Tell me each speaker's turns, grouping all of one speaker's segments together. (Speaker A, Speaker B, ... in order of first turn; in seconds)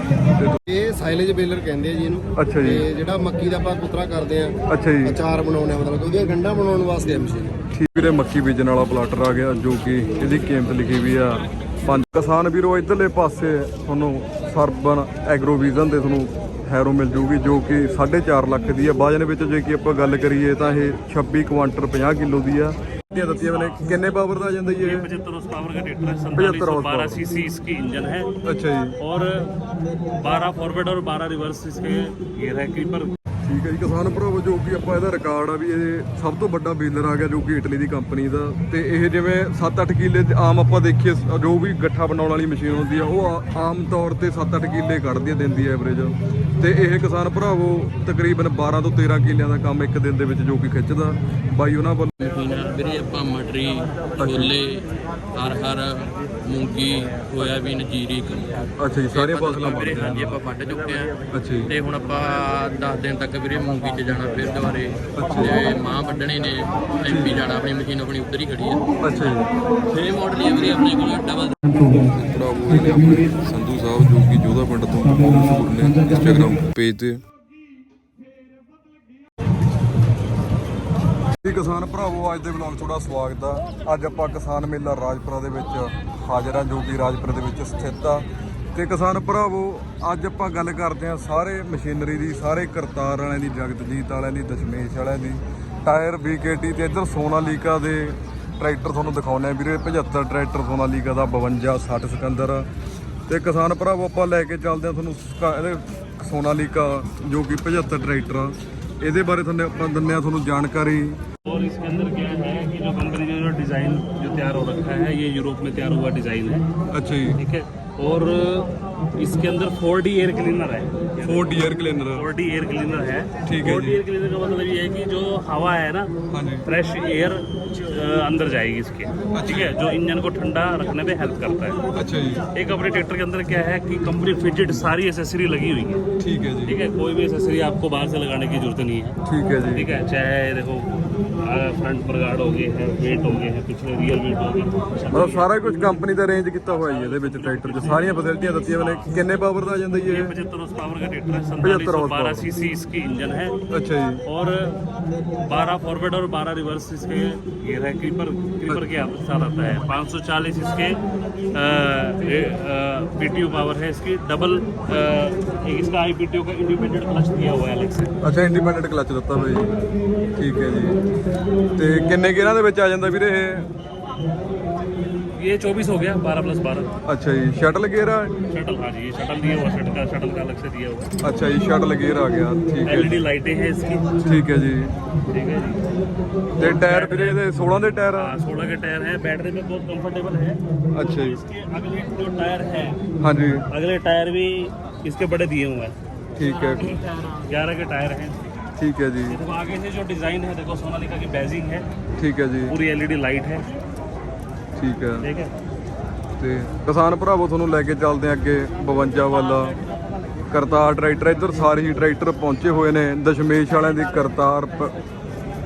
Speaker A: 0.7-7.6
Speaker B: 2.4-2.8, 4.7-5.2, 7.7-25.1, 26.4-27.2, 28.4-29.0, 33.4-52.1, 54.2-54.5, 58.8-60.4, 61.3-61.7, 65.1-65.5, 67.1-67.4, 69.0-69.5, 71.7-77.2, 81.4-102.7, 103.3-111.2, 116.9-117.4, 121.2-122.2, 123.4-124.0, 126.3-126.7, 129.3-129.7, 131.9-132.4, 136.2-136.8, 139.2-139.9, 145.1-150.3, 151.6-152.5, 153.7-154.2, 168.2-169.8, 170.3-171.0, 171.8-173.7, 177.1-178.3, 181.2-183.2, 184.2-184.9, 186.6-188.3, 190.9-191.4, 193.2-193.6, 196.3-197.0, 198.8-199.4, 202.2-202.8, 204.8-205.3, 206.4-209.8, 210.5-214.9
Speaker C: 24.8-28.3, 29.0-29.6, 30.2-33.1, 111.4-116.6, 117.4-126.1, 126.7-131.8, 132.5-136.0, 136.7-139.2, 139.7-140.9, 141.4-145.5, 146.7-148.2, 148.7-149.0, 150.1-153.6, 154.2-154.8, 155.5-161.0, 161.5-168.1, 175.3-176.9, 178.5-181.2, 182.8-184.2, 185.3-185.9, 186.6-187.5, 188.1-193.0, 193.7-195.9, 196.7-198.4, 199.3-201.9, 202.7-203.7, 205.2-205.5
Speaker D: 52.2-71.8